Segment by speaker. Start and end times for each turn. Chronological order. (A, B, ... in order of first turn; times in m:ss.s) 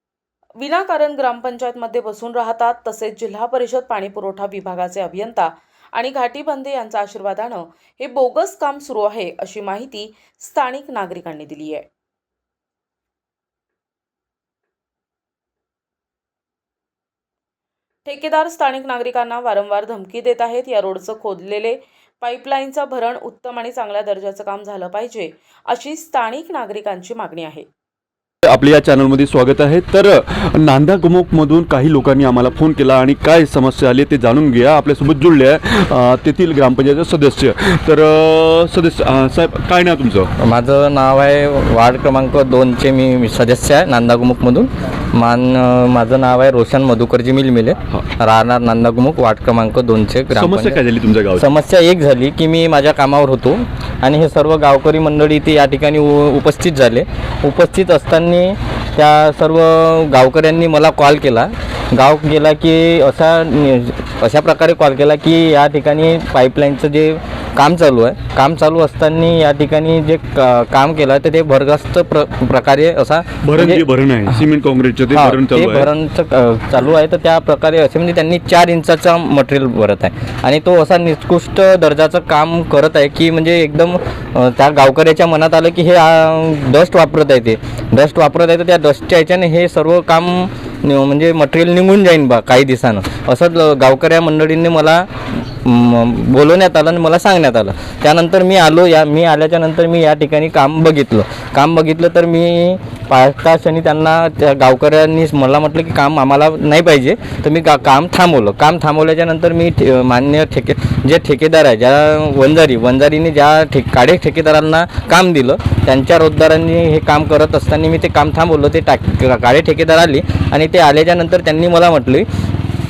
0:00.6-0:11.9 A
0:18.0-0:27.7 A
0:28.4-0:40.3 B
0:40.4-0:50.8 C
0:50.3-0:51.5 B
0:51.3-1:13.8 C
1:13.4-1:15.9 B
1:15.1-1:35.1 C
1:35.6-2:02.3 C